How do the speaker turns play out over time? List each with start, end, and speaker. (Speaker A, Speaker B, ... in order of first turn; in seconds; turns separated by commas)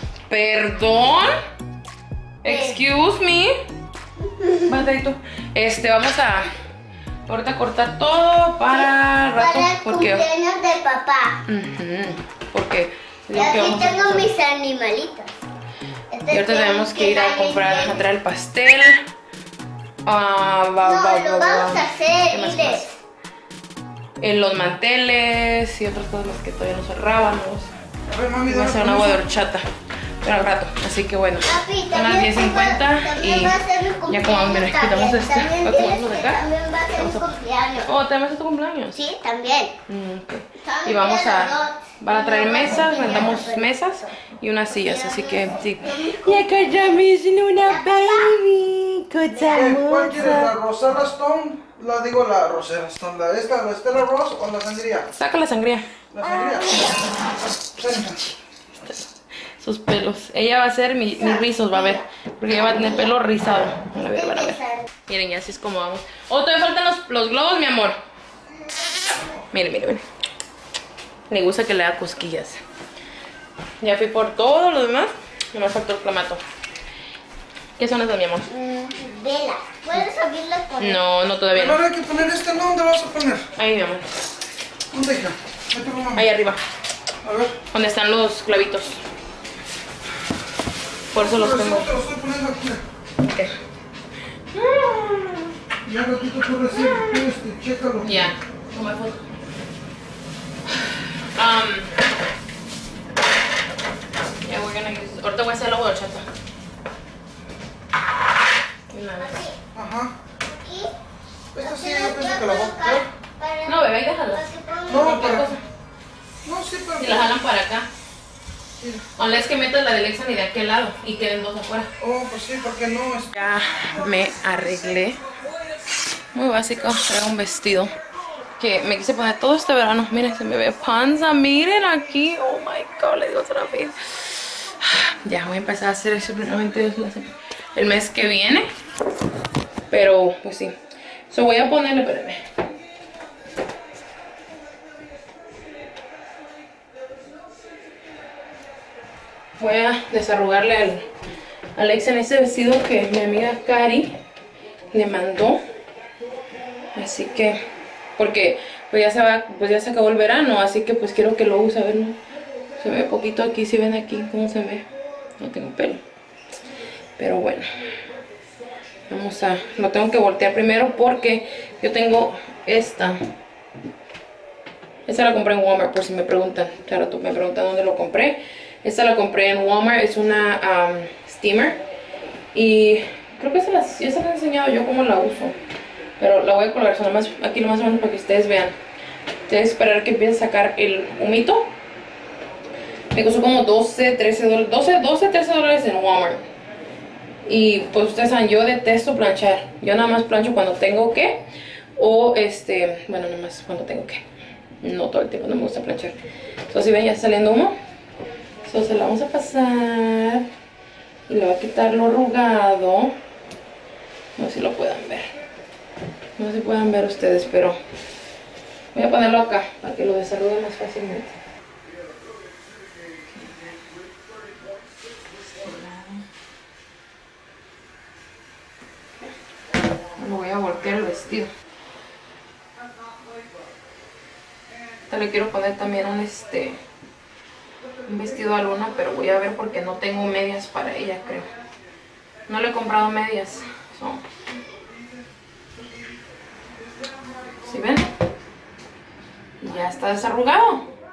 Speaker A: 0.3-1.3, Speaker A: 2.4-3.5, Speaker B: 2.5-2.8, Speaker A: 4.7-6.5, Speaker A: 7.3-10.3, Speaker B: 8.7-11.4, Speaker A: 11.5-14.3, Speaker B: 13.3-15.3, Speaker B: 16.1-18.0, Speaker A: 16.3-19.0, Speaker A: 20.1-22.9, Speaker B: 20.8-22.9, Speaker A: 24.2-27.7, Speaker C: 28.1-29.2, Speaker A: 28.5-29.6, Speaker A: 30.2-37.3, Speaker B: 31.4-37.9, Speaker A: 37.8-39.0, Speaker B: 38.9-39.8, Speaker A: 39.9-50.6, Speaker B: 40.6-43.7, Speaker B: 44.8-46.4, Speaker B: 47.6-48.4, Speaker C: 49.5-55.1, Speaker A: 55.2-55.9, Speaker C: 56.1-57.0, Speaker C: 57.6-58.2, Speaker A: 57.8-68.0, Speaker B: 61.2-63.1, Speaker B: 64.1-64.8, Speaker C: 68.8-69.4, Speaker A: 69.5-70.0, Speaker A: 71.3-72.6, Speaker A: 73.8-76.4, Speaker A: 77.8-78.5, Speaker B: 78.5-81.0, Speaker A: 80.8-81.8, Speaker C: 81.5-83.5, Speaker A: 83.6-84.1, Speaker C: 84.9-86.3, Speaker A: 86.2-86.6, Speaker C: 87.2-87.6, Speaker A: 87.7-89.0, Speaker A: 91.1-91.9, Speaker C: 91.1-92.8, Speaker A: 93.2-93.5, Speaker A: 94.5-95.5, Speaker C: 95.8-98.3, Speaker A: 96.7-97.3, Speaker A: 98.0-99.2, Speaker A: 100.8-101.9, Speaker A: 104.4-106.3, Speaker A: 108.9-109.5, Speaker B: 109.2-109.6, Speaker C: 109.7-110.2, Speaker B: 110.4-110.9, Speaker C: 111.5-113.1, Speaker B: 111.6-115.4, Speaker A: 113.7-115.6, Speaker C: 114.9-115.5, Speaker C: 116.5-117.3, Speaker A: 117.0-117.9, Speaker A: 119.2-121.9, Speaker C: 122.0-123.3, Speaker A: 123.3-125.2, Speaker A: 126.3-127.9, Speaker A: 128.6-138.7, Speaker A: 139.9-140.8, Speaker A: 141.3-142.4, Speaker A: 149.6-151.1, Speaker A: 151.8-154.2, Speaker A: 154.9-155.6, Speaker A: 156.9-157.6, Speaker A: 158.2-162.2, Speaker A: 162.8-164.9, Speaker A: 165.4-166.0, Speaker A: 167.2-167.7, Speaker A: 169.1-173.2, Speaker A: 175.1-181.8, Speaker A: 182.5-185.6, Speaker A: 186.2-188.8, Speaker A: 189.5-191.7, Speaker A: 193.1-196.4, Speaker A: 197.5-204.2, Speaker A: 204.8-206.2, Speaker A: 206.7-207.8, Speaker A: 208.7-210.5, Speaker A: 211.3-213.2, Speaker A: 214.4-215.3, Speaker A: 216.4-217.8, Speaker A: 218.9-221.4, Speaker A: 225.6-226.2, Speaker A: 230.2-231.5, Speaker A: 235.1-236.8, Speaker A: 238.1-241.5, Speaker A: 242.5-244.2, Speaker A: 247.6-248.1, Speaker A: 249.6-250.9